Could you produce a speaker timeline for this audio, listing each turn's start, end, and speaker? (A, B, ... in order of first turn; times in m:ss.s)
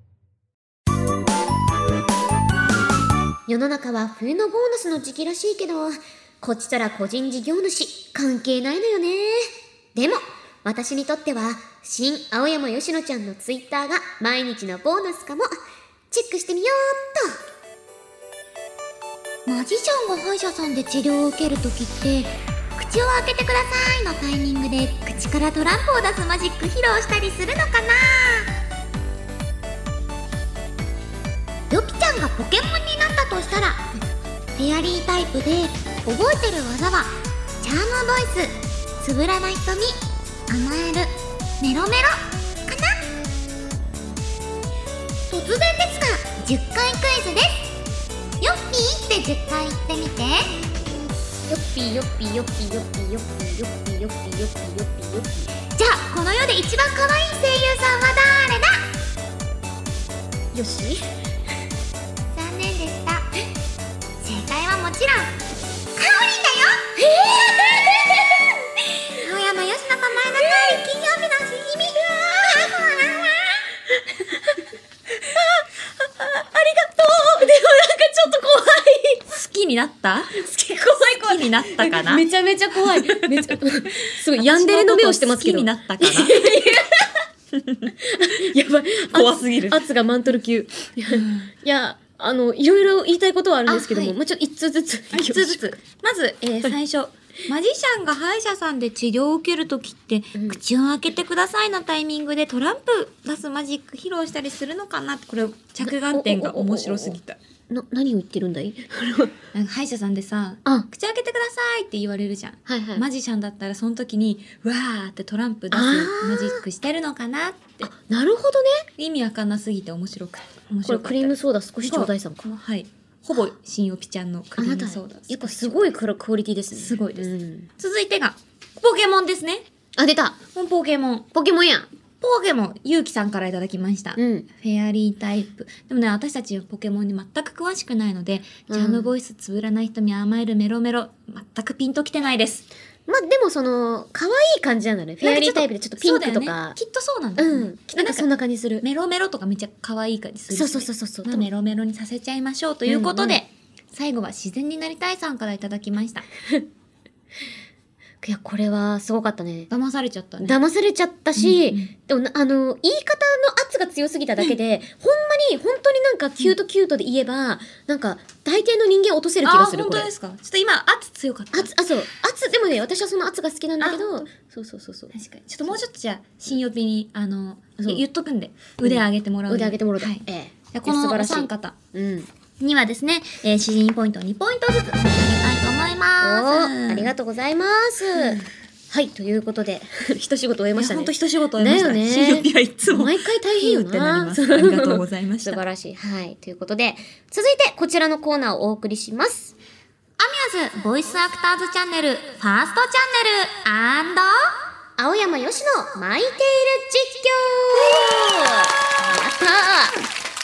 0:03.5-0:15.6 A
0:16.1-0:17.4 A
0:19.5-0:28.5 B
0:31.7-0:33.9 B
0:34.6-0:43.0 B
0:45.3-0:47.7 B
0:48.4-0:50.6 B
0:51.5-0:55.5 A
0:55.8-0:58.9 B
1:00.5-1:01.0 C
1:02.3-1:03.3 B
1:04.2-1:05.3 B
1:06.0-1:07.0 B
1:07.0-1:08.4 A
1:09.1-1:13.6 B
1:16.2-1:19.2 A
1:19.3-1:22.2 C
1:20.4-1:27.2 A
1:22.8-1:23.5 C
1:24.4-1:26.4 C
1:27.5-1:27.9 C
1:28.0-1:35.6 A
1:29.1-1:29.8 C
1:31.1-1:31.5 C
1:33.7-1:34.2 C
1:35.1-1:47.4 C
1:40.3-1:40.6 A
1:46.1-1:47.2 A
1:47.7-1:49.3 A
1:49.5-1:57.9 C
1:52.7-1:53.0 A
1:55.7-1:56.6 A
1:57.8-1:58.9 A
1:59.0-2:05.9 C
2:00.8-2:02.4 A
2:04.6-2:07.7 A
2:06.7-2:09.6 C
2:10.0-2:10.4 A
2:10.5-2:11.3 C
2:11.3-2:11.9 A
2:12.2-2:22.6 C
2:14.2-2:14.5 A
2:18.7-2:19.1 A
2:23.1-2:26.8 A
2:25.2-2:28.2 C
2:27.4-2:28.8 A
2:28.8-2:36.2 C
2:30.5-2:31.5 A
2:32.9-2:33.4 A
2:38.2-2:39.7 A
2:39.7-2:40.6 C
2:40.4-2:50.1 A
2:41.4-2:41.9 C
2:49.4-2:51.7 C
2:51.5-2:55.1 A
2:53.8-2:54.3 C
2:55.1-3:01.8 C
2:58.8-3:02.3 A
3:02.6-3:07.1 C
3:06.2-3:19.5 A
3:08.2-3:08.5 C
3:10.8-3:15.6 C
3:20.2-3:24.6 B
3:25.0-3:30.0 A
3:27.9-3:28.7 C